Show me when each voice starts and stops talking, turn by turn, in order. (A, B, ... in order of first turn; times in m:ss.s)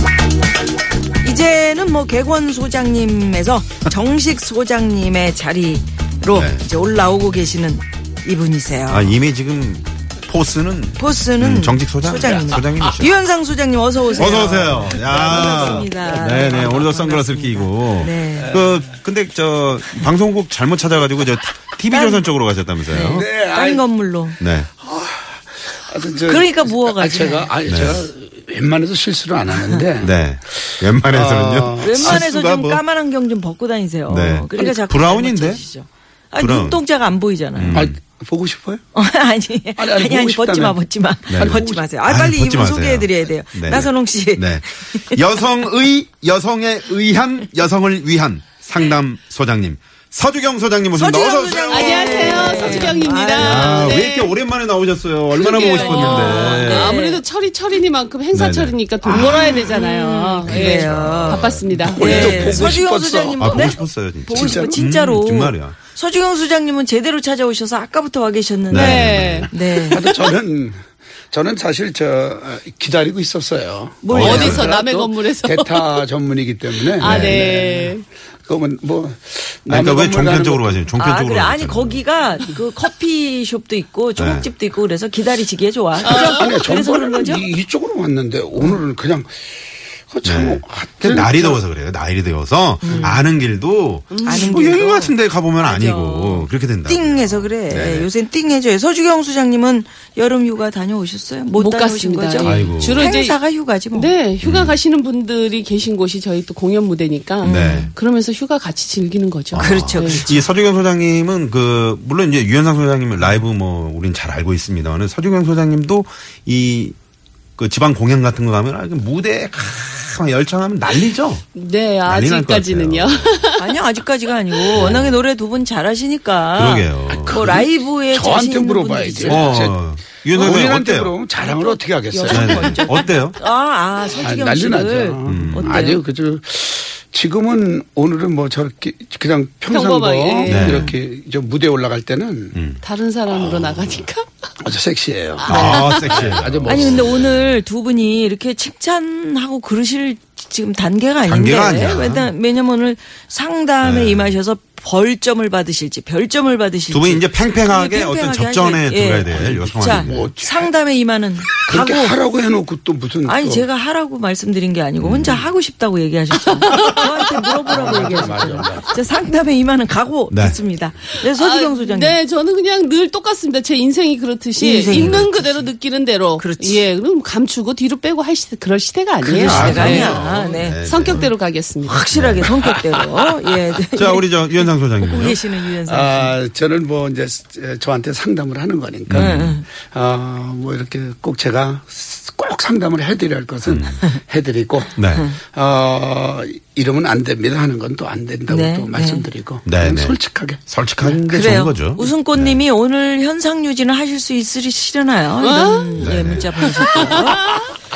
0:01.2-0:09.2 A
0:06.3-0:06.7 B
0:08.9-0:13.2 B
0:11.0-0:18.6 A
0:14.1-0:23.3 B
0:21.9-0:22.3 A
0:22.9-0:24.4 A
0:23.2-0:23.8 C
0:24.4-0:24.7 B
0:24.8-0:30.1 C
0:26.2-0:27.5 A
0:27.7-0:28.1 B
0:30.0-0:32.8 B
0:31.1-0:32.2 C
0:31.8-0:37.9 A
0:34.1-0:35.6 B
0:36.4-0:36.8 B
0:37.6-0:38.0 B
0:37.7-0:38.8 C
0:38.9-0:45.2 A
0:39.8-0:40.8 C
0:41.3-0:57.0 B
0:41.4-0:41.8 C
0:50.9-0:54.0 A
0:51.7-0:54.4 D
0:55.3-1:02.6 D
0:55.6-0:57.2 A
0:58.3-0:59.7 B
0:59.1-1:10.1 A
1:00.4-1:02.8 B
1:01.9-1:04.8 C
1:03.4-1:05.8 B
1:08.7-1:09.5 B
1:08.7-1:10.0 D
1:09.7-1:20.8 C
1:14.0-1:14.8 A
1:14.1-1:14.7 B
1:14.1-1:16.0 D
1:16.8-1:18.0 D
1:17.0-1:17.4 B
1:19.7-1:22.0 B
1:21.0-1:27.5 A
1:24.2-1:24.5 B
1:26.0-1:31.6 C
1:26.0-1:26.6 D
1:30.2-1:38.1 B
1:32.8-1:33.2 A
1:34.1-1:34.8 D
1:34.2-1:44.1 A
1:41.6-1:43.4 D
1:42.4-1:43.1 B
1:43.9-1:50.4 D
1:44.4-1:44.8 B
1:47.4-1:47.9 B
1:47.4-1:47.9 A
1:49.5-1:57.0 B
1:49.6-1:50.3 A
1:57.6-2:01.4 B
2:01.6-2:03.7 D
2:02.1-2:03.4 B
2:03.6-2:09.6 A
2:04.7-2:05.2 B
2:06.5-2:07.4 B
2:07.1-2:12.7 C
2:09.2-2:11.2 B
2:11.4-2:13.2 D
2:12.3-2:13.4 B
2:12.3-2:16.0 A
2:14.1-2:22.6 C
2:15.3-2:15.8 B
2:19.7-2:20.8 D
2:20.5-2:20.9 B
2:20.5-2:21.0 A
2:22.5-2:22.8 B
2:22.8-2:24.3 D
2:23.3-2:24.0 C
2:24.6-2:27.2 C
2:25.4-2:26.4 D
2:25.5-2:27.6 B
2:25.5-2:25.8 A
2:26.6-2:42.2 A
2:31.3-2:32.3 B
2:33.8-2:34.4 B
2:36.9-2:40.3 B
2:39.4-2:40.7 C
2:41.6-2:43.7 C
2:43.2-2:52.2 A
2:45.0-2:45.5 B
2:46.6-2:48.4 D
2:47.7-2:48.9 C
2:50.3-2:50.6 B
2:51.4-3:00.2 D
2:54.6-2:55.7 A
2:54.9-2:55.3 B
2:56.4-2:56.9 A
2:59.3-3:01.3 B
2:59.4-3:01.3 A
3:00.8-3:02.1 D
3:01.9-3:06.4 A
3:02.1-3:02.6 B
3:04.0-3:05.4 B
3:05.8-3:21.2 C
3:09.1-3:09.6 B
3:09.1-3:09.6 A
3:13.7-3:14.0 B
3:15.0-3:15.3 B
3:18.5-3:19.3 A
3:19.7-3:22.6 B
3:21.3-3:27.6 A
3:25.4-3:26.0 D
3:26.0-3:27.3 B
3:26.6-3:27.7 D